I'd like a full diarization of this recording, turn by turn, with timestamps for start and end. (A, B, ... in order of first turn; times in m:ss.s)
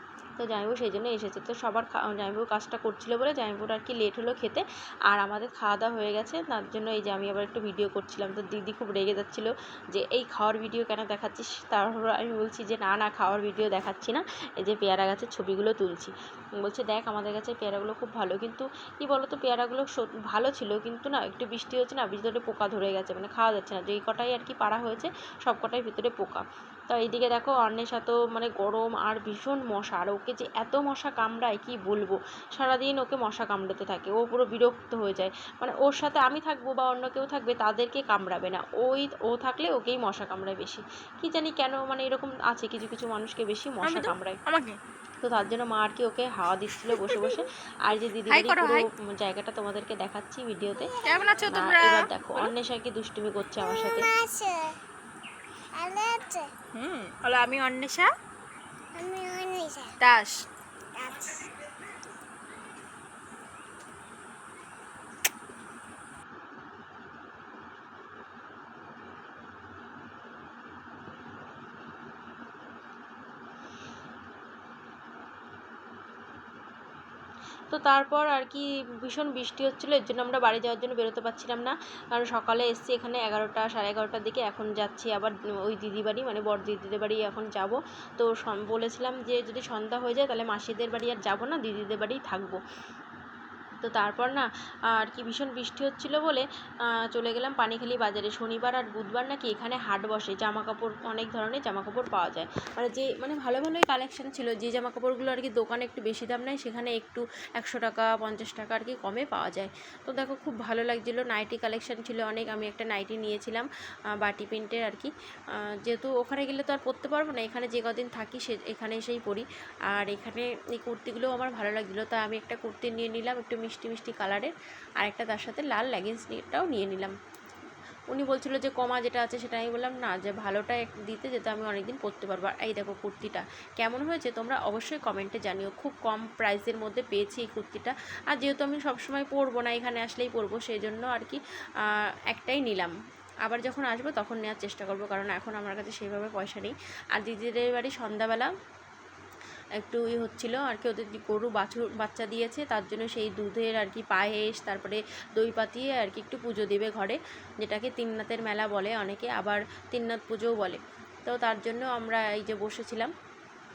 0:00.4-0:44.4 A
0:43.8-0:44.8 B
0:45.2-0:54.1 A
0:46.9-0:47.4 B
0:48.3-0:48.9 B
0:50.9-0:51.2 C
0:51.0-0:52.5 B
0:53.8-0:54.8 C
0:55.8-0:56.5 C
0:56.7-0:58.1 B
0:59.0-1:00.0 C
1:00.0-1:00.4 B
1:01.0-1:01.2 C
1:17.7-1:32.6 A
1:33.8-2:07.1 A
2:08.1-2:28.5 A
2:29.8-2:43.1 A